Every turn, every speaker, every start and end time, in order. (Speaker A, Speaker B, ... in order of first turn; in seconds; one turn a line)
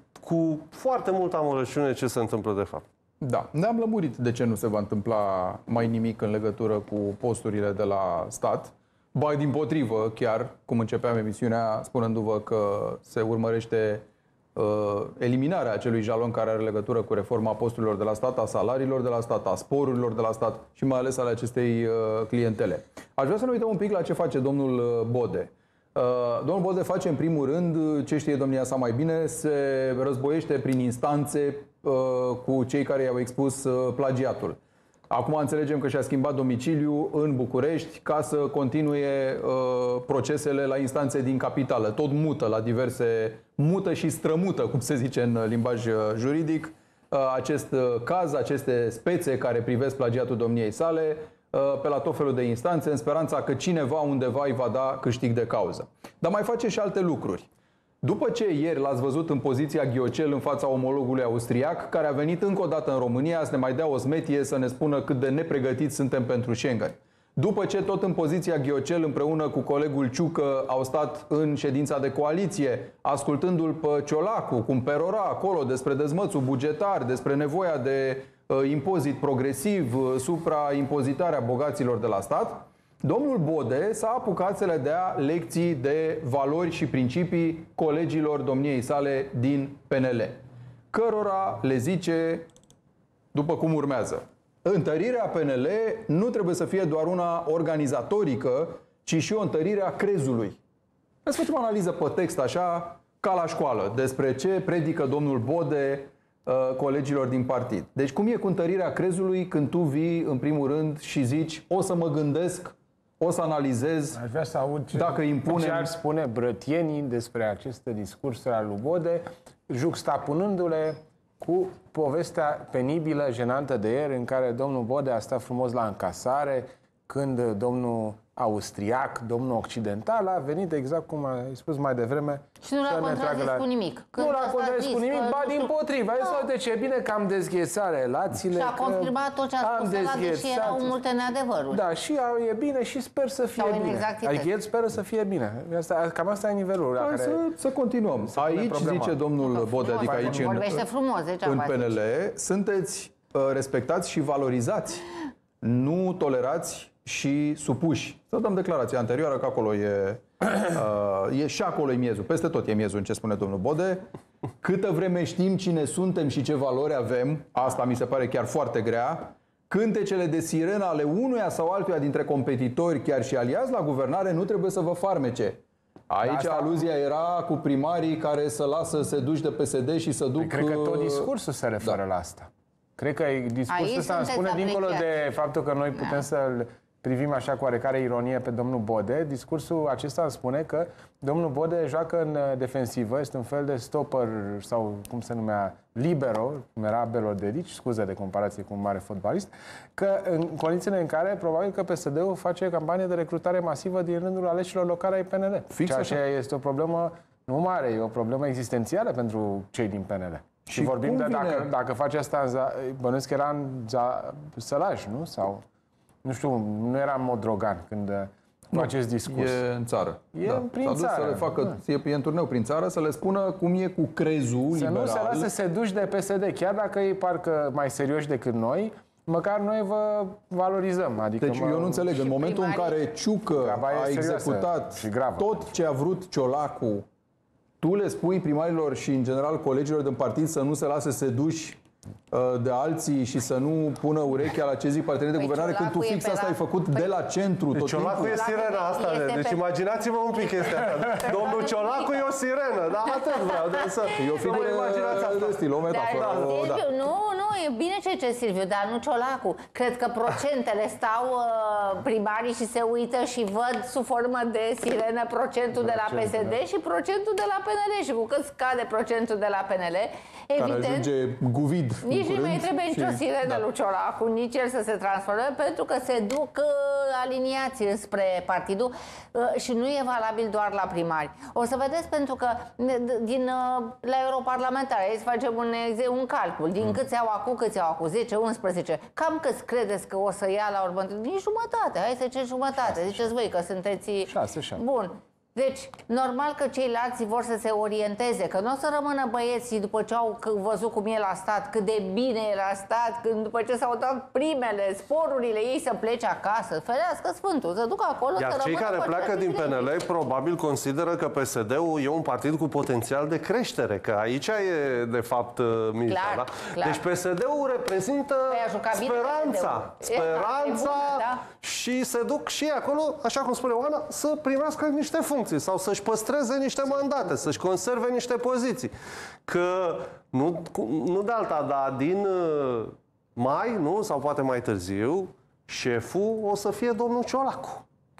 Speaker A: 0.2-2.8
Speaker B: 3.2-34.6
Speaker B: 35.1-57.5
Speaker B: 58.0-90.4
Speaker B: 90.9-92.5
Speaker B: 93.3-100.6
Speaker B: 101.2-114.2
Speaker C: 114.1-133.7
Speaker B: 114.9-115.9
Speaker D: 132.6-136.4
Speaker C: 134.2-141.0
Speaker D: 138.5-141.8
Speaker C: 141.7-147.4
Speaker D: 143.6-144.5
Speaker B: 147.0-150.8
Speaker C: 148.3-149.2
Speaker D: 149.4-152.0
Speaker C: 150.0-150.8
Speaker B: 151.4-155.0
Speaker B: 155.6-164.0
Speaker B: 164.6-181.3
Speaker C: 176.2-176.9
Speaker C: 180.4-215.6
Speaker D: 183.7-185.1
Speaker B: 205.7-206.2
Speaker B: 210.7-211.7
Speaker C: 216.2-219.6
Speaker B: 218.7-225.5
Speaker C: 220.3-221.8
Speaker C: 224.7-232.2
Speaker B: 231.4-237.0
Speaker D: 232.2-233.0
Speaker C: 233.6-235.7
Speaker B: 237.8-241.8
Speaker B: 242.3-248.4
Speaker D: 245.3-247.2
Speaker A: 247.7-256.7
Speaker D: 248.2-249.6
Speaker D: 250.4-252.3
Speaker D: 253.3-254.8
Speaker B: 254.2-256.8
Speaker D: 255.9-271.1
Speaker C: 265.8-266.5
Speaker B: 270.6-273.6
Speaker D: 272.0-310.0
Speaker C: 292.8-293.3
Speaker C: 294.3-294.8
Speaker A: 308.4-328.9
Speaker D: 316.1-317.0
Speaker D: 318.5-321.4
Speaker A: 329.5-337.8